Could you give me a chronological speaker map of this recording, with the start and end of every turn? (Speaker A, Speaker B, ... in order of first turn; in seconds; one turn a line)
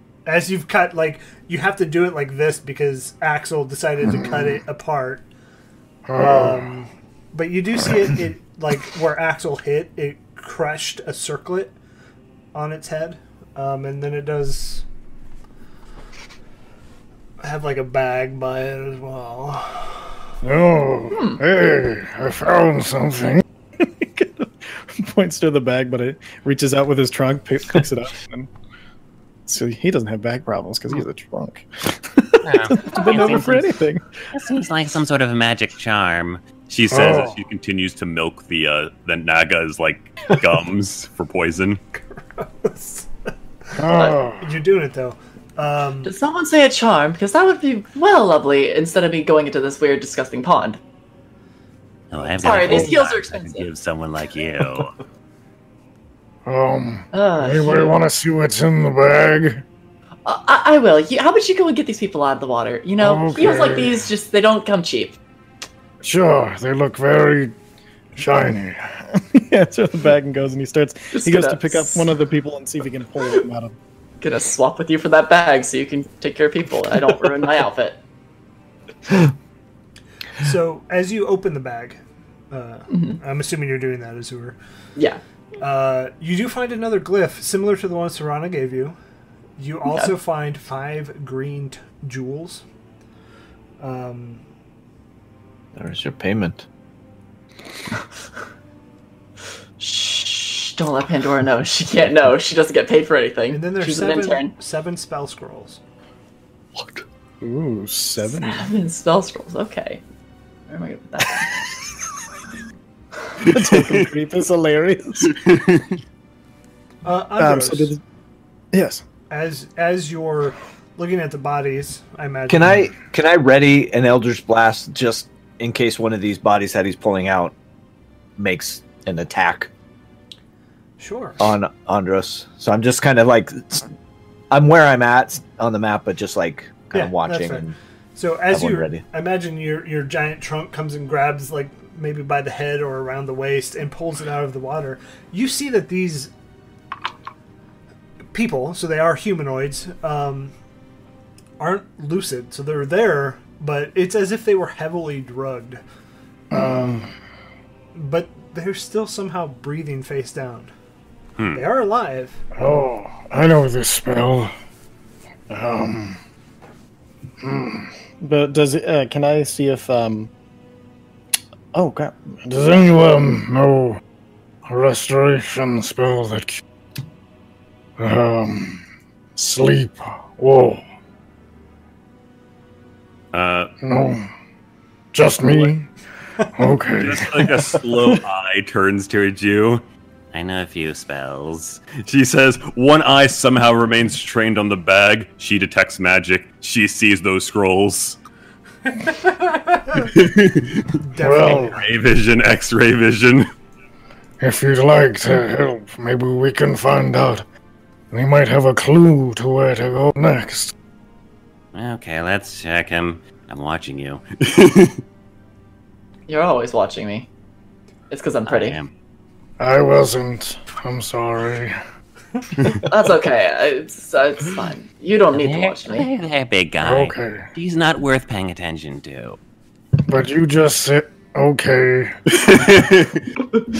Speaker A: 0.2-5.2
Speaker B: 4.1-4.5
Speaker B: 6.1-6.7
Speaker A: 6.2-11.7
Speaker A: 12.5-14.8
Speaker A: 17.4-20.0
Speaker B: 20.4-23.4
Speaker C: 21.1-21.4
Speaker D: 23.8-28.5
Speaker D: 29.5-34.0
Speaker E: 32.4-33.7
Speaker E: 34.3-36.6
Speaker F: 36.7-41.8
Speaker B: 36.9-37.4
Speaker A: 42.1-43.1
Speaker B: 43.7-44.4
Speaker A: 44.4-46.1
Speaker C: 46.0-50.8
Speaker E: 52.1-54.9
Speaker C: 52.4-53.7
Speaker B: 56.5-59.6
Speaker C: 57.1-58.0
Speaker C: 60.2-65.2
Speaker B: 63.0-64.0
Speaker B: 66.0-67.5
Speaker B: 68.2-69.0
Speaker D: 69.3-73.7
Speaker C: 71.1-72.1
Speaker C: 74.2-78.0
Speaker A: 80.4-84.6
Speaker C: 82.9-83.2
Speaker C: 85.0-85.2
Speaker A: 85.6-89.0
Speaker A: 89.6-92.6
Speaker C: 89.9-90.1
Speaker A: 93.8-94.4
Speaker G: 95.7-96.6
Speaker C: 99.8-104.5
Speaker A: 103.5-105.8
Speaker D: 107.4-108.7
Speaker C: 108.2-110.0
Speaker C: 110.7-111.5
Speaker D: 113.4-115.4
Speaker F: 113.4-114.1
Speaker F: 115.2-116.0
Speaker A: 117.0-117.9
Speaker D: 117.4-118.0
Speaker D: 118.7-119.0
Speaker A: 119.3-122.9
Speaker G: 122.5-127.5
Speaker G: 128.4-129.7
Speaker A: 131.0-131.4
Speaker G: 131.4-133.9
Speaker G: 134.5-137.8
Speaker A: 136.9-146.3
Speaker G: 138.5-139.0
Speaker A: 148.3-150.5
Speaker A: 151.6-155.8
Speaker B: 156.5-157.1
Speaker A: 156.6-156.9
Speaker A: 157.9-160.7
Speaker F: 161.4-161.6
Speaker A: 161.5-162.4
Speaker B: 162.6-164.5
Speaker B: 165.5-166.2
Speaker B: 167.4-167.9
Speaker D: 168.2-170.3
Speaker D: 171.7-172.5
Speaker B: 172.4-174.0
Speaker B: 174.7-176.6
Speaker B: 178.0-178.8
Speaker B: 179.4-180.8
Speaker F: 183.3-183.7
Speaker B: 183.8-184.3
Speaker B: 185.1-185.9
Speaker B: 186.5-187.8
Speaker F: 187.0-189.8
Speaker E: 190.3-191.9
Speaker F: 191.9-198.2
Speaker F: 199.9-203.5
Speaker A: 201.0-201.8
Speaker B: 201.2-201.8
Speaker B: 204.4-207.4
Speaker B: 208.1-210.7
Speaker E: 211.7-214.2
Speaker F: 214.4-215.0
Speaker C: 216.3-217.3
Speaker C: 218.1-218.8
Speaker E: 218.4-218.9
Speaker B: 219.6-221.8
Speaker C: 222.9-226.1
Speaker E: 225.4-229.4
Speaker B: 226.8-227.5
Speaker B: 230.1-232.6
Speaker F: 232.4-233.2